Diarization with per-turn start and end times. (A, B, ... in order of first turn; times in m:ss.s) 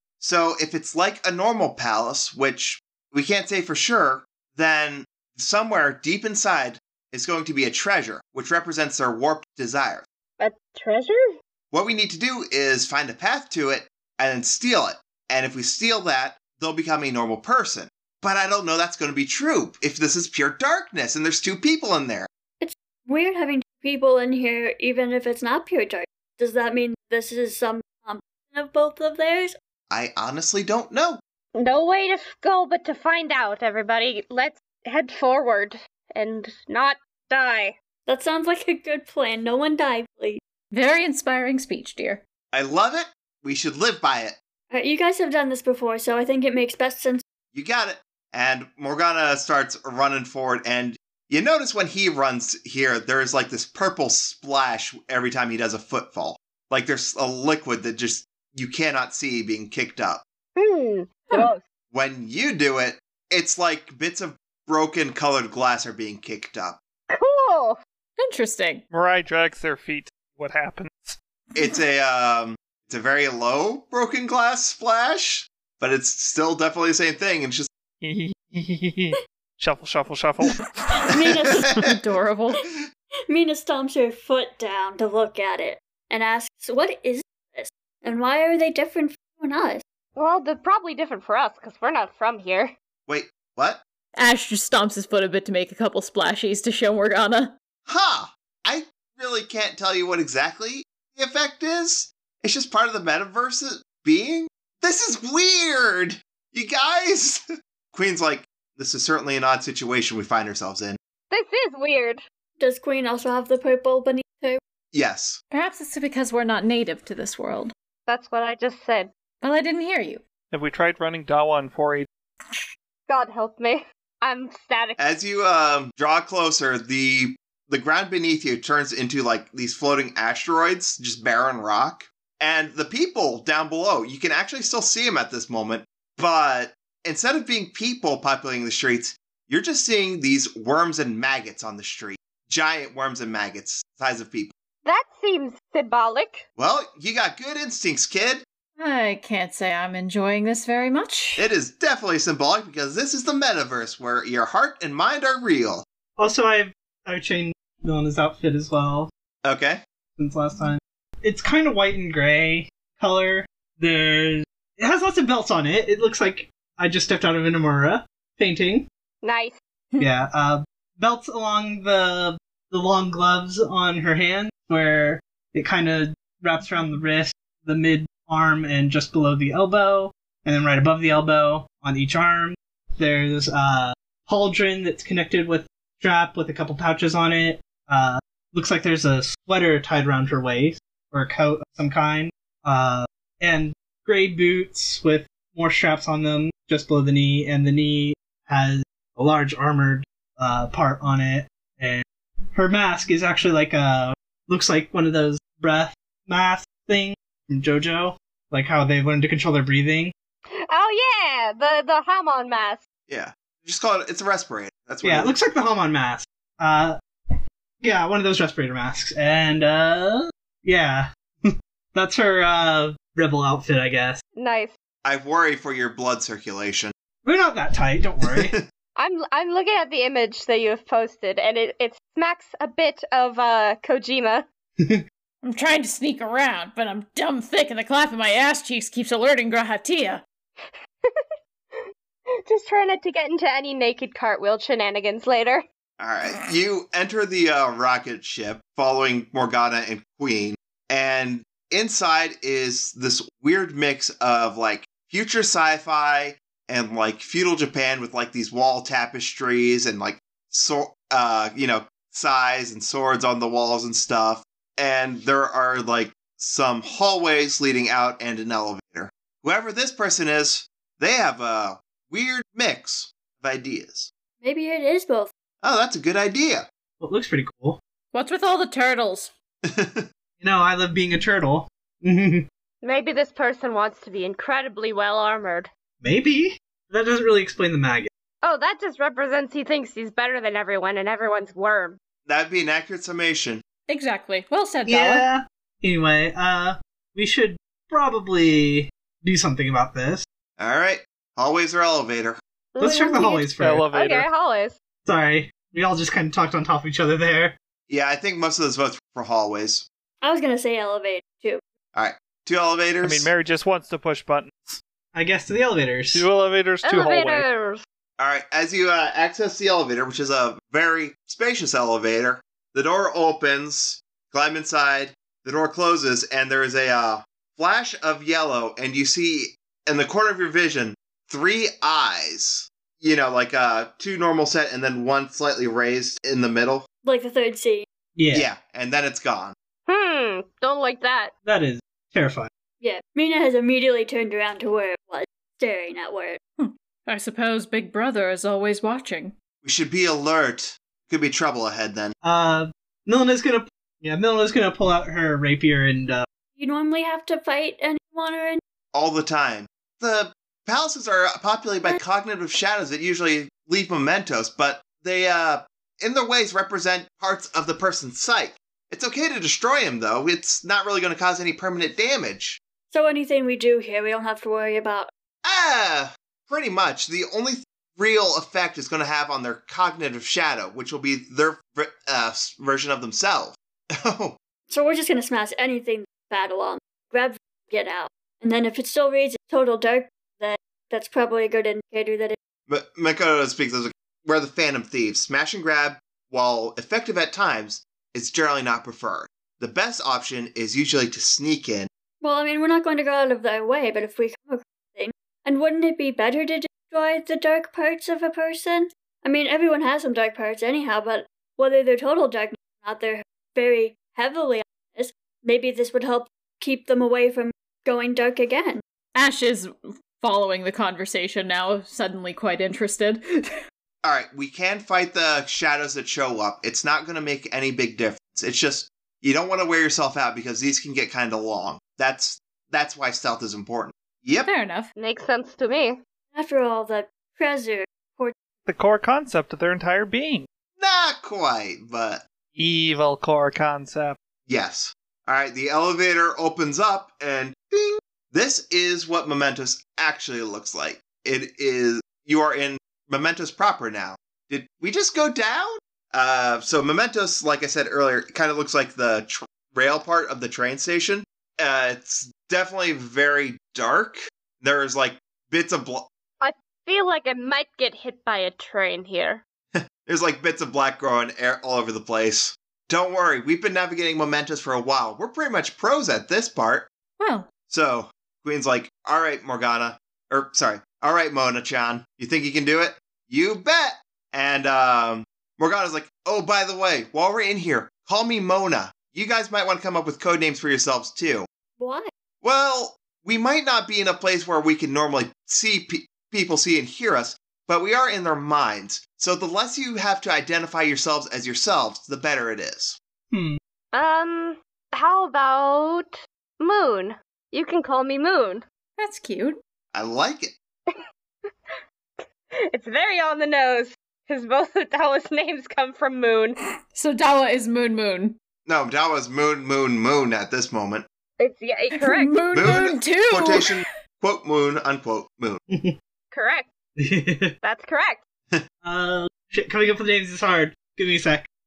0:00.2-0:10.0 A
0:10.4-0:11.2 B
0:11.7-0:22.3 A
0:22.6-0:29.5 C
0:29.9-0:31.2 A
0:31.5-0:37.7 B
0:38.1-0:40.4 C
0:40.7-0:42.2 D
0:42.5-0:44.3 A
0:44.7-0:47.2 C
0:47.5-1:00.2 A
1:00.6-1:01.6 B
1:01.9-1:06.8 A
1:07.1-1:07.8 B
1:08.2-1:08.8 D
1:08.9-1:11.2 E
1:11.5-1:17.7 A
1:18.0-1:21.1 E
1:21.1-1:21.7 C
1:21.8-1:22.6 D
1:23.3-1:29.8 C
1:30.2-1:32.7 B
1:33.1-1:33.8 A
1:34.2-1:37.5 D
1:37.9-1:51.0 A
1:51.3-1:52.2 B
1:52.6-1:54.6 C
1:54.9-1:55.4 A
1:55.5-1:57.7 D
1:58.1-1:59.1 B
1:59.4-2:00.2 D
2:00.5-2:02.1 E
2:03.1-2:05.0 B
2:05.0-2:24.5 A
2:24.8-2:26.4 B
2:26.6-2:28.4 A
2:28.8-2:31.4 D
2:31.4-2:35.8 A
2:36.2-2:39.1 F
2:39.4-2:39.8 A
2:40.2-2:48.8 F
2:49.2-2:49.5 B
2:50.0-3:30.1 F
3:30.5-3:32.8 B
3:33.1-3:35.3 A
3:35.0-3:44.2 F
3:44.4-3:44.7 B
3:45.0-3:46.9 A
3:47.2-3:48.6 F
3:48.2-3:48.6 A
3:49.0-3:54.4 B
3:55.4-4:00.2 D
4:01.0-4:01.8 B
4:02.4-4:05.6 B
4:06.0-4:34.1 A
4:34.4-4:35.3 C
4:35.6-4:36.6 A
4:37.0-4:37.8 F
4:38.1-4:39.3 D
4:39.6-4:40.1 A
4:40.4-4:42.5 F
4:42.8-4:45.7 B
4:46.0-4:48.1 F
4:48.4-4:52.0 B
4:52.2-4:53.6 A
4:53.9-4:55.2 D
4:54.9-5:00.2 F
5:00.6-5:02.4 A
5:02.7-5:04.7 B
5:02.8-5:03.8 F
5:03.6-5:04.3 E
5:05.0-5:07.5 F
5:07.9-5:09.8 A
5:10.2-5:11.6 C
5:11.9-5:13.3 A
5:13.0-5:14.8 E
5:15.1-5:16.2 F
5:16.1-5:17.4 E
5:16.8-5:17.8 B
5:18.2-5:36.8 A
5:37.0-5:37.9 C
5:38.2-5:38.5 F
5:38.3-5:39.5 A
5:39.9-5:41.3 B
5:41.4-5:42.5 F
5:42.8-5:46.4 C
5:46.6-5:49.3 D
5:49.6-5:52.1 A
5:52.2-5:56.2 F
5:56.6-5:58.6 C
5:58.9-6:12.6 A
6:12.9-6:15.1 C
6:15.4-6:24.4 A
6:24.7-6:32.4 C
6:32.7-6:41.9 A
6:42.2-6:58.8 C
6:59.1-7:03.4 D
7:04.0-7:14.5 A
7:14.4-7:14.9 D
7:15.0-7:16.0 B
7:16.3-7:18.3 C
7:18.6-7:20.5 E
7:20.8-7:22.2 A
7:22.5-7:24.2 E
7:24.5-7:46.1 A
7:46.4-7:49.4 B
7:49.7-7:56.9 A
7:57.2-7:57.5 D
7:57.7-8:11.5 A
8:11.8-8:12.1 C
8:12.4-8:23.0 A
8:23.3-8:23.6 F
8:23.9-8:28.6 B
8:29.0-8:29.6 D
8:29.9-8:30.5 A
8:32.2-8:36.6 B
8:36.9-8:38.4 D
8:38.6-8:41.0 A
8:41.4-8:42.3 B
8:42.0-8:43.7 D
8:42.5-8:45.6 A
8:45.7-8:45.9 F
8:46.3-8:46.7 B
8:47.0-8:47.5 F
8:47.6-8:48.2 B
8:48.8-8:51.5 F